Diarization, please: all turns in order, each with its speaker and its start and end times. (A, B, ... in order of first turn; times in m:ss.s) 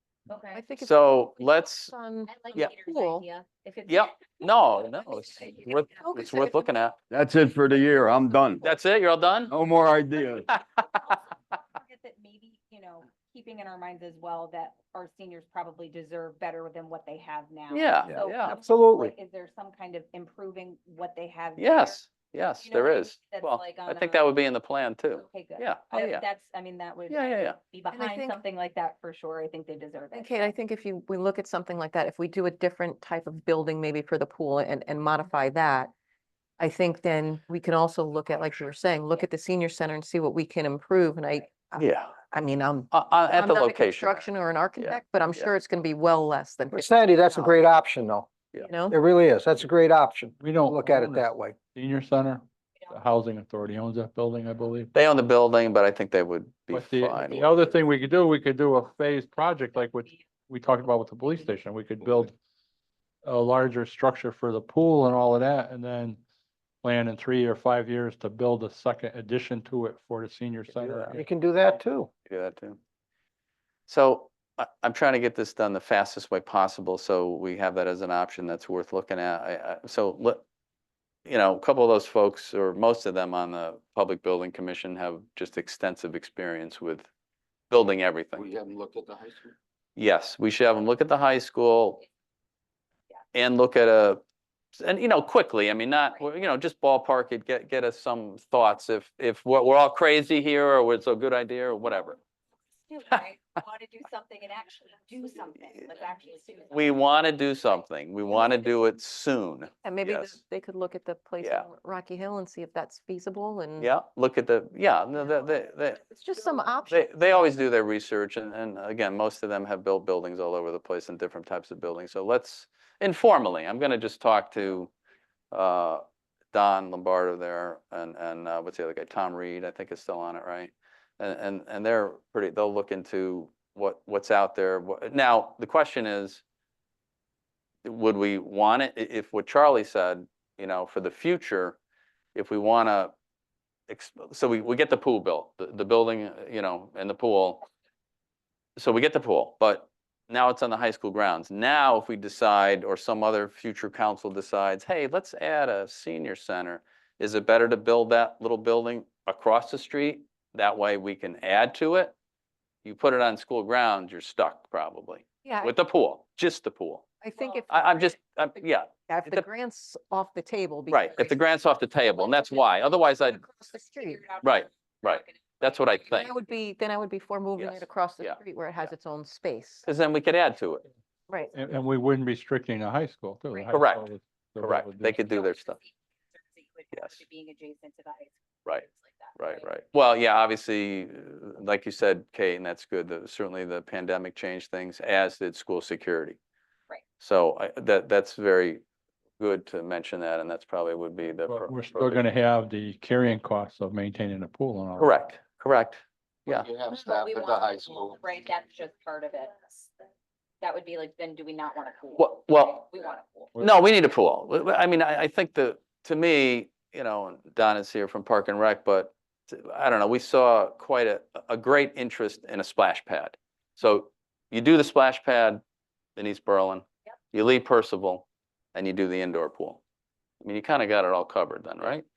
0:00.3-0:00.7 A
0:00.5-0:03.2 B
0:00.8-0:01.9 C
0:01.4-0:01.6 A
0:02.3-0:05.8 A
0:03.9-0:07.0 C
0:06.0-0:06.7 B
0:07.1-0:08.7 D
0:08.6-0:09.5 C
0:09.4-0:10.5 D
0:11.0-0:24.3 A
0:17.7-0:18.6 C
0:18.4-0:19.1 E
0:21.6-0:26.2 C
0:25.1-0:30.5 A
0:27.1-0:27.6 C
0:27.9-0:28.4 B
0:30.1-0:35.9 B
0:36.6-0:47.6 B
0:41.8-0:42.2 C
0:42.9-0:44.2 C
0:44.8-0:45.5 C
0:46.7-0:48.3 E
0:48.6-0:49.0 B
0:48.9-0:51.6 E
0:50.4-0:54.9 F
0:54.9-0:57.5 C
0:56.7-1:02.4 F
1:03.2-1:06.2 F
1:06.8-1:11.2 F
1:10.8-1:11.1 C
1:11.1-1:12.1 E
1:12.2-1:12.8 C
1:13.9-1:20.4 C
1:21.2-1:27.1 C
1:27.7-1:28.5 C
1:28.4-1:29.5 D
1:30.0-1:32.0 C
1:33.3-1:34.2 C
1:34.7-1:42.2 C
1:42.9-1:47.3 A
1:46.7-1:50.4 C
1:49.8-1:53.9 B
1:51.4-1:51.6 C
1:53.8-1:56.1 C
1:56.0-1:57.1 B
1:56.9-2:04.9 C
2:05.5-2:16.4 C
2:17.8-2:21.8 C
2:22.3-2:23.1 C
2:23.9-2:27.6 C
2:28.8-2:42.1 C
2:42.8-2:47.0 C
2:45.4-2:45.7 B
2:47.2-2:48.1 B
2:47.3-2:47.6 A
2:47.7-2:49.4 C
2:49.1-2:51.4 B
2:50.9-2:53.4 C
2:52.0-2:56.2 A
2:53.2-2:54.2 B
2:54.4-2:56.3 C
2:56.1-2:59.9 B
2:57.6-2:58.9 C
2:59.8-3:00.8 C
3:01.5-3:05.2 F
3:03.5-3:03.8 A
3:03.7-3:04.1 C
3:04.6-3:05.8 C
3:05.2-3:09.6 A
3:09.4-3:16.4 C
3:17.2-3:18.8 C
3:19.4-3:22.2 C
3:21.4-3:25.1 F
3:25.0-3:26.6 C
3:26.4-3:28.2 D
3:26.9-3:29.9 A
3:30.6-3:33.5 A
3:32.2-3:32.8 C
3:33.6-3:45.6 C
3:46.2-3:49.8 C
3:50.4-3:52.0 C